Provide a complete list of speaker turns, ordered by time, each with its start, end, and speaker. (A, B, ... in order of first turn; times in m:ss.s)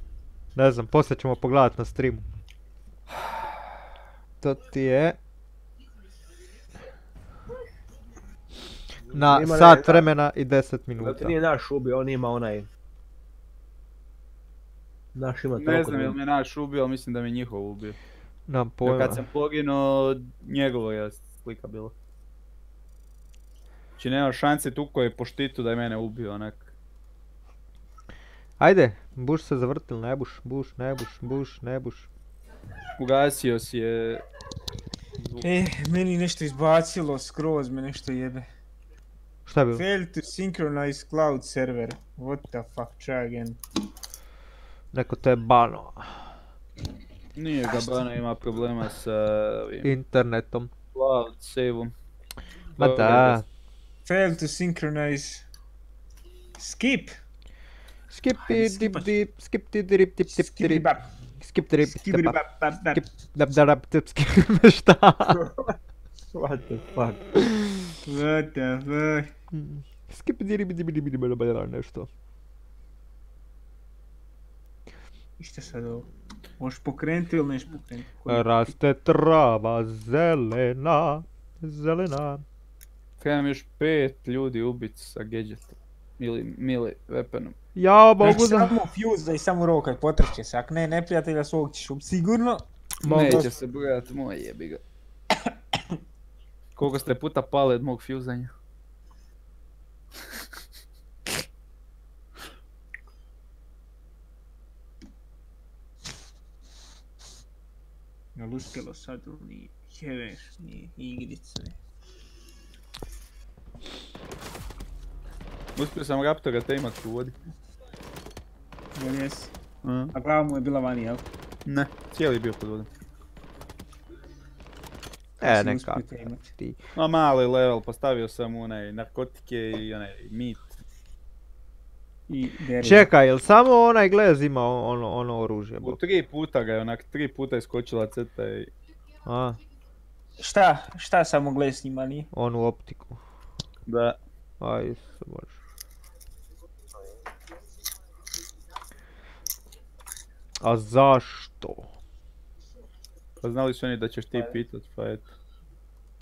0:00.6-0:02.2 A
0:04.4-0:05.2 A
0:09.1-0:11.4 A
0:09.2-0:10.1 B
0:11.0-0:12.7 B
0:15.2-0:16.2 B
0:15.6-0:18.0 C
0:18.5-0:19.3 A
0:18.8-0:21.9 C
0:24.0-0:26.7 C
0:28.6-0:32.1 A
0:33.0-0:34.2 C
0:35.4-0:38.5 D
0:39.5-0:39.8 A
0:39.8-0:43.6 D
0:44.9-0:46.3 A
0:47.4-0:49.9 C
0:49.8-0:50.7 A
0:50.9-0:51.9 C
0:52.8-0:53.4 A
0:52.8-0:53.4 C
0:54.0-0:55.4 D
0:56.6-0:57.2 D
0:58.1-1:02.4 A
0:58.4-0:59.1 D
1:00.3-1:01.1 D
1:01.8-1:03.0 D
1:02.9-1:05.4 A
1:06.3-1:07.2 B
1:08.0-1:09.3 D
1:09.5-1:12.1 A
1:15.4-1:16.1 D
1:16.6-1:18.6 D
1:18.3-1:22.4 A
1:23.2-1:27.6 C
1:27.8-1:28.8 A
1:28.2-1:33.5 D
1:33.0-1:33.5 A
1:33.0-1:34.8 C
1:36.8-1:38.5 C
1:48.4-1:51.8 D
1:55.8-1:57.4 C
1:59.0-1:59.5 D
1:59.8-2:00.1 C
2:00.1-2:01.2 D
2:01.7-2:02.9 C
2:05.4-2:06.8 A
2:05.4-2:06.5 D
2:07.0-2:10.6 C
2:12.3-2:13.1 D
2:12.8-2:16.0 A
2:15.8-2:18.7 C
2:19.2-2:19.6 A
2:20.4-2:22.3 D
2:22.3-2:23.2 A
2:23.9-2:24.2 C
2:24.6-2:25.6 A
2:30.6-2:31.9 A
2:33.4-2:35.3 C